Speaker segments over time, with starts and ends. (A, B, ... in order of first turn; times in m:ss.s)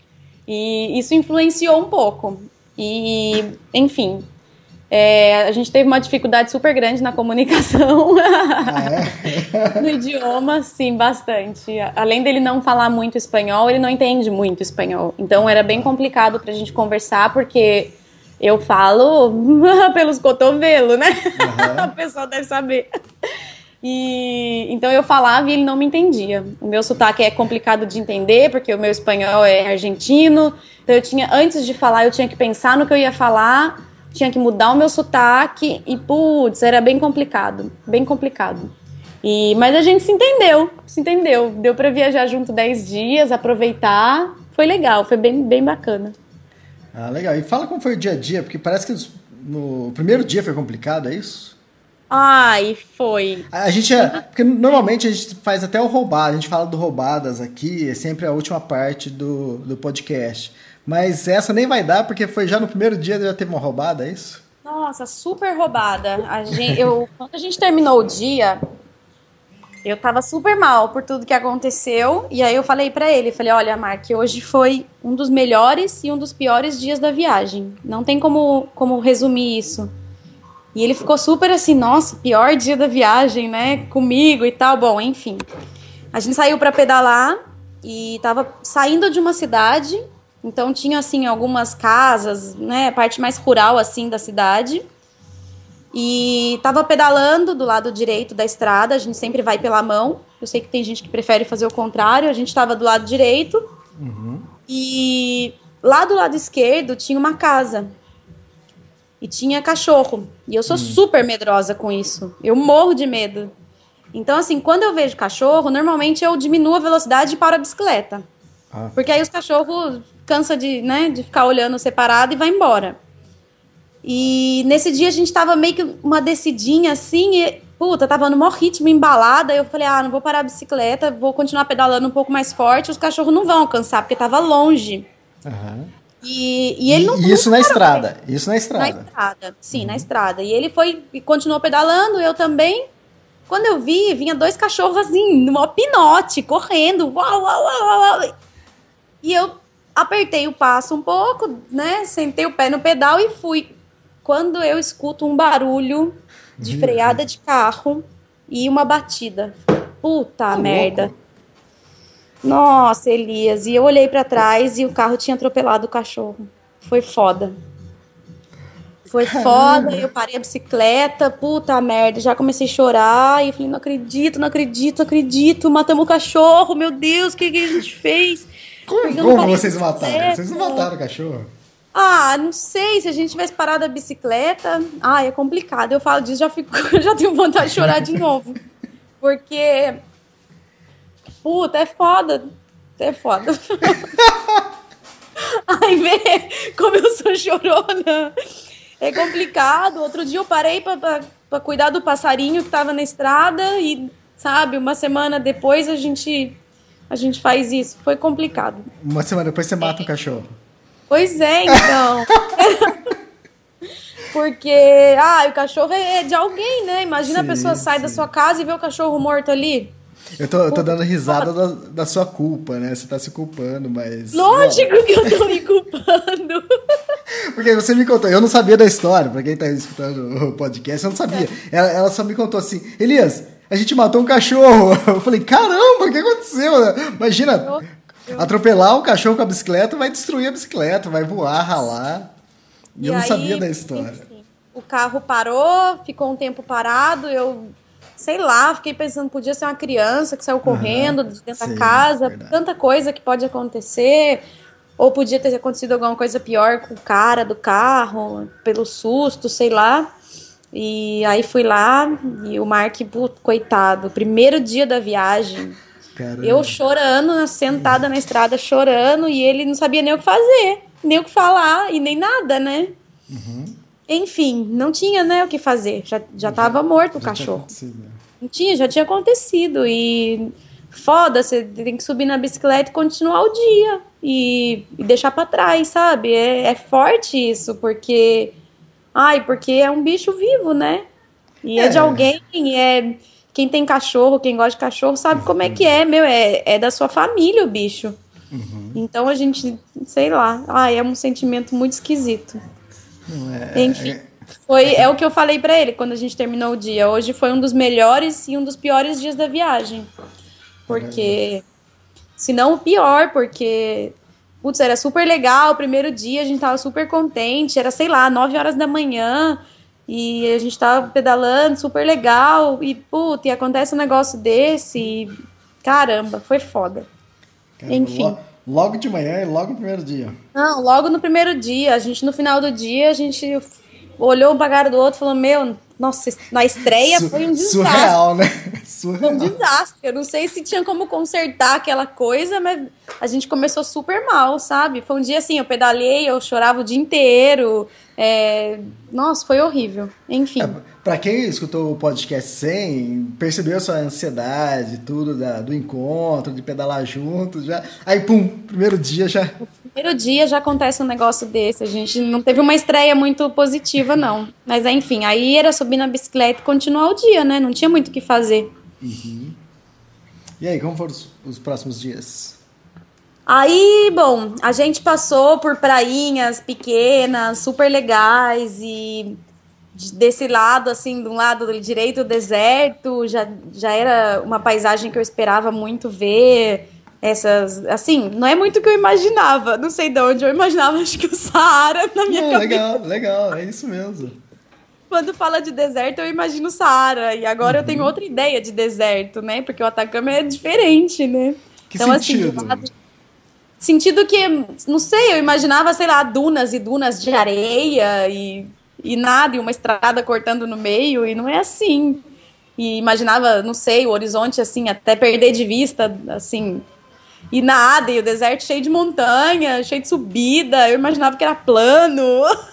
0:00.5-0:04.2 A
0:04.9-0:09.0 A
0:08.6-0:09.8 B
0:09.8-0:22.9 A
0:15.3-0:15.9 B
0:21.4-0:21.9 B
0:23.8-0:38.7 A
0:39.2-0:46.1 A
0:46.9-0:51.6 B
0:52.1-0:53.5 A
0:53.5-1:04.4 B
1:04.6-1:08.6 A
1:09.8-1:19.9 A
1:20.7-1:25.4 A
1:26.1-1:34.8 A
1:35.9-1:43.6 A
1:44.0-1:44.5 B
1:44.7-1:47.9 A
1:49.2-1:53.5 A
1:50.7-1:51.0 B
1:54.1-1:58.2 A
1:58.7-1:59.0 B
1:58.9-2:03.0 A
2:04.0-2:15.1 A
2:15.4-2:15.9 B
2:16.2-2:18.0 A
2:16.9-2:19.1 B
2:18.8-2:22.9 A
2:19.7-2:20.1 B
2:23.5-2:28.3 A
2:29.2-2:33.7 A
2:34.2-2:41.1 A
2:36.6-2:37.2 B
2:40.5-2:41.1 B
2:42.4-2:47.5 A
2:49.1-2:58.5 A
2:49.3-2:50.0 B
2:58.9-3:01.5 B
2:59.0-3:00.9 A
3:01.9-3:08.6 A
3:07.7-3:08.2 B
3:09.2-3:10.0 A
3:11.4-3:14.1 A
3:14.2-3:14.6 B
3:15.6-3:18.3 A
3:19.0-3:26.6 A
3:27.1-3:28.9 A
3:29.0-3:30.5 B
3:31.1-3:33.1 A
3:34.3-3:39.9 A
3:37.2-3:38.2 B
3:40.4-3:45.5 B
3:40.7-3:41.5 A
3:44.3-3:46.6 A
3:47.5-3:57.8 B
3:57.6-3:58.5 A
3:58.4-4:02.3 B
4:03.0-4:04.2 B
4:03.0-4:14.4 A
4:10.6-4:12.6 B
4:15.0-4:20.1 A
4:20.7-4:25.8 A
4:26.2-4:26.8 B
4:26.4-4:32.9 A
4:27.8-4:28.0 B
4:33.3-4:33.8 B
4:34.1-4:37.7 A
4:36.4-4:38.2 B
4:38.4-4:48.5 A
4:49.1-4:51.1 A
4:51.6-4:58.2 A
4:51.8-4:52.3 B
4:55.3-4:55.9 B
4:58.5-4:59.0 B
4:59.0-5:02.6 A
5:03.3-5:04.3 B
5:03.8-5:04.1 A
5:04.7-5:10.1 A
5:04.8-5:05.1 B
5:10.9-5:11.6 A
5:10.9-5:11.4 B
5:12.4-5:25.3 A
5:25.8-5:27.1 A
5:27.8-5:30.4 B
5:27.9-5:28.4 A
5:30.5-5:38.2 A
5:37.0-5:39.5 B
5:39.2-5:50.8 A
5:50.6-5:59.6 B
5:59.6-6:08.7 A
6:09.0-6:09.6 B
6:10.6-6:12.6 B
6:13.5-6:19.4 A
6:19.9-6:33.0 A
6:32.3-6:34.4 B
6:35.1-6:42.9 A
6:37.6-6:38.1 B
6:41.9-6:42.9 B
6:43.8-6:52.2 A
6:52.8-6:56.8 A
6:57.5-7:02.5 A